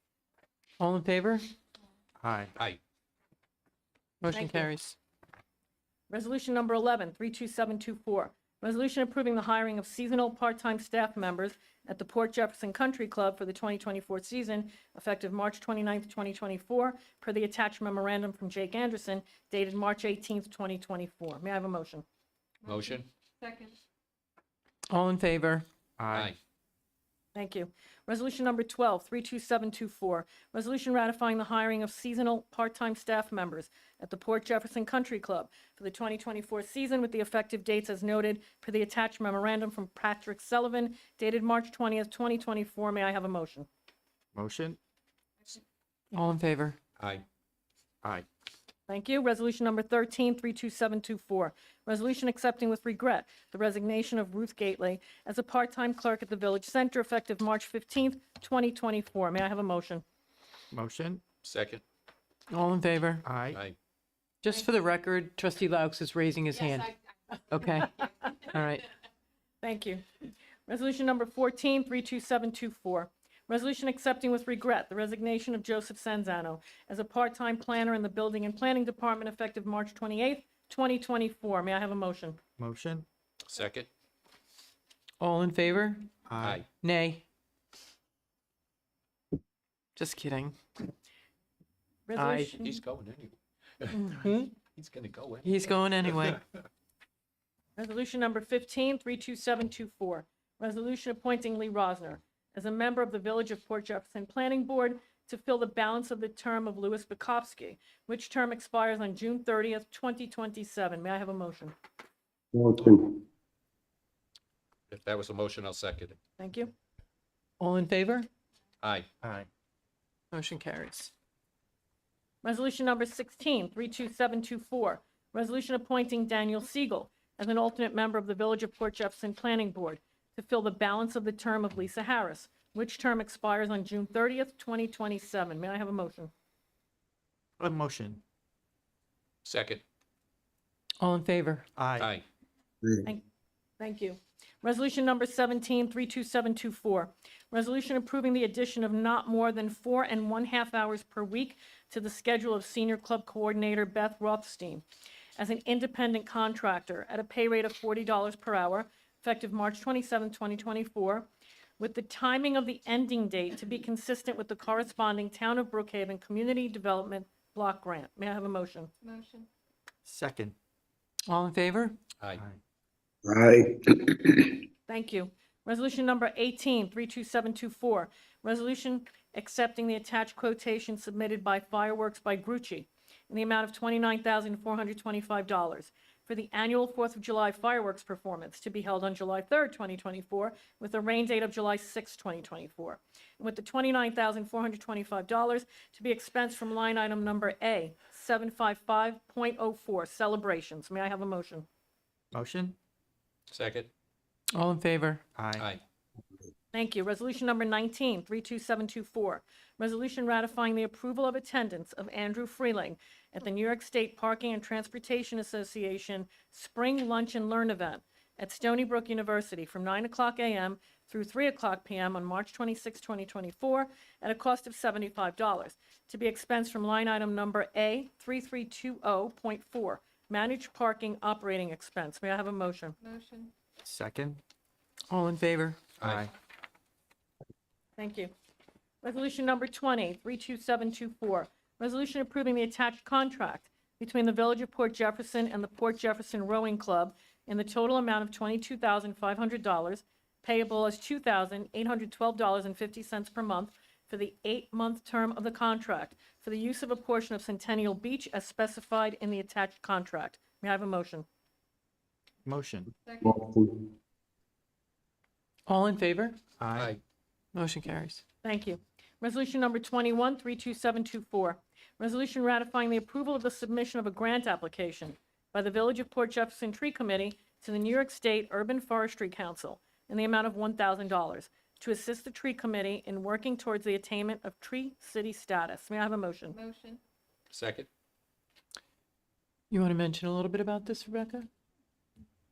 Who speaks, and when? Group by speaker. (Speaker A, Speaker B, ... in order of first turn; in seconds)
Speaker A: 0.8-1.5, 4.2-5.0, 24.9-25.7, 46.1-46.8, 62.5-63.2, 64.4-67.0, 67.5-67.9, 68.5-68.9, 85.2-86.1, 86.7-87.2, 90.0-90.6, 92.2-92.6, 93.9-94.5, 95.4-96.4, 117.6-118.3, 120.3-121.1, 141.0-141.7, 171.3-172.0, 204.6-205.2, 235.1-235.8, 265.7-266.4, 267.5-268.2, 289.7-291.5
Speaker B: 2.2-2.5, 26.0-26.4, 44.3-44.8, 60.7-61.2, 63.2-63.6, 82.6-83.1, 86.3-86.7, 119.2-119.5, 137.6-138.2, 141.8-142.1, 170.1-170.5, 202.3-202.8, 205.4-205.7, 233.8-234.4, 236.0-236.3, 262.4-262.9, 266.6-266.9
Speaker C: 4.3-4.7, 6.1-22.0, 27.4-43.7, 48.9-60.0, 68.0-68.3, 69.6-70.0, 70.7-82.4, 92.1-92.7, 97.8-111.7, 116.4-116.7, 122.4-136.3, 143.8-154.8, 155.4-161.3, 161.8-168.9, 174.9-201.7, 206.7-233.0, 238.0-238.3, 239.0-261.2, 268.4-286.6
Speaker D: 22.6-23.1, 26.1-26.4, 47.0-47.2, 61.4-61.8, 63.5-63.8, 83.5-83.9, 92.6-94.0, 94.8-95.5, 114.9-116.2, 118.8-119.1, 139.4-139.8, 142.0-142.2, 203.5-203.9, 205.6-205.8, 236.0-236.3, 266.8-267.0, 287.5-287.9
Speaker E: 112.5-113.2, 173.2-174.6, 263.2-263.9